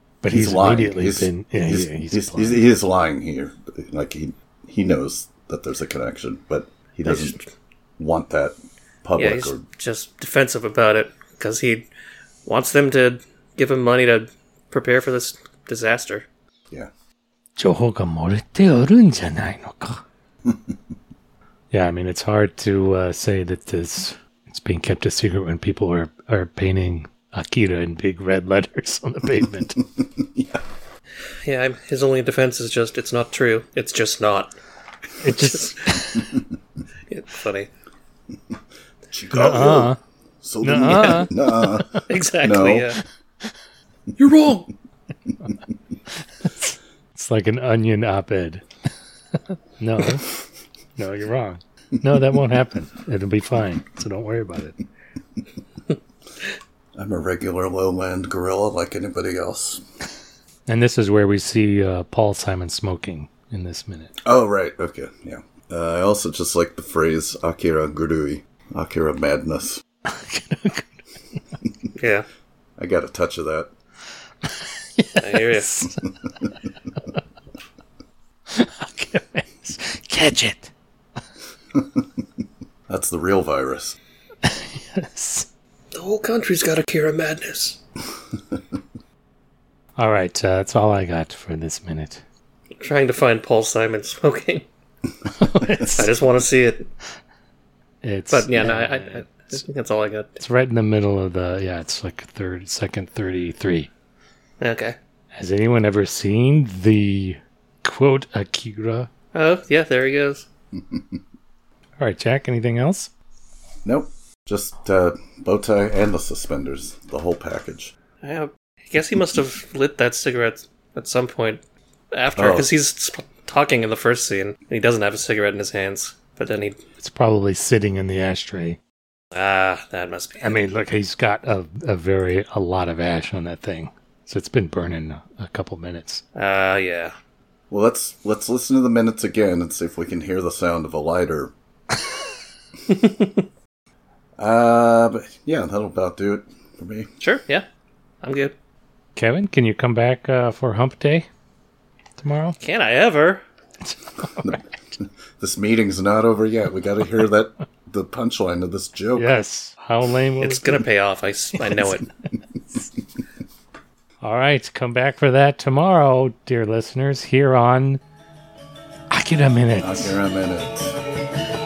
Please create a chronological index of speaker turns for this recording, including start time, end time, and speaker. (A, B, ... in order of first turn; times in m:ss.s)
0:00.2-0:02.7 A
0:00.2-0:07.4 B
0:07.0-0:07.4 C
0:08.0-0:09.6 B
0:09.2-0:11.9 C
0:12.4-0:16.3 C
0:17.6-0:20.0 A
0:20.5-0:20.7 B
0:21.7-0:29.8 A
0:30.0-0:30.6 B
0:31.4-0:34.5 C
0:35.2-0:36.3 A
0:35.2-0:36.1 C
0:37.1-0:37.7 C
0:39.1-0:42.9 B
0:39.3-0:40.0 A
0:40.6-0:42.1 A
0:42.1-0:43.0 C
0:44.2-0:44.7 B
0:46.4-0:48.6 A
0:49.5-0:50.3 A
0:51.0-0:54.8 A
0:57.0-0:59.8 B
1:00.7-1:04.1 A
1:04.2-1:09.8 B
1:10.1-1:11.1 A
1:12.0-1:12.3 C
1:12.8-1:13.7 B
1:14.4-1:16.1 A
1:15.2-1:15.8 C
1:18.5-1:20.7 A
1:22.9-1:24.0 B
1:24.4-1:25.5 A
1:25.9-1:27.8 C
1:30.0-1:32.2 A
1:32.8-1:34.7 C
1:35.4-1:36.1 A
1:35.8-1:36.9 C
1:38.0-1:39.6 A
1:38.3-1:40.4 C
1:40.4-1:43.9 A
1:44.6-1:45.0 C
1:45.3-1:49.1 A
1:49.3-1:50.5 C
1:50.8-1:51.2 B
1:52.0-1:53.1 A
1:53.8-1:57.9 B
1:58.2-2:06.8 C
2:02.4-2:02.7 B
2:07.0-2:08.8 A
2:09.3-2:10.6 C
2:10.4-2:16.2 A
2:16.4-2:17.1 C
2:17.7-2:21.5 B
2:22.9-2:23.4 C
2:24.4-2:27.1 B
2:27.2-2:27.7 C
2:28.2-2:28.5 C
2:29.2-2:31.3 A
2:32.2-2:32.6 A
2:32.6-2:33.4 C
2:33.8-2:34.8 A
2:34.4-2:39.3 B
2:39.2-2:40.8 A
2:40.4-2:42.1 C
2:41.6-2:42.0 A
2:44.2-2:48.0 A
2:49.1-2:50.2 A
2:49.8-2:51.0 B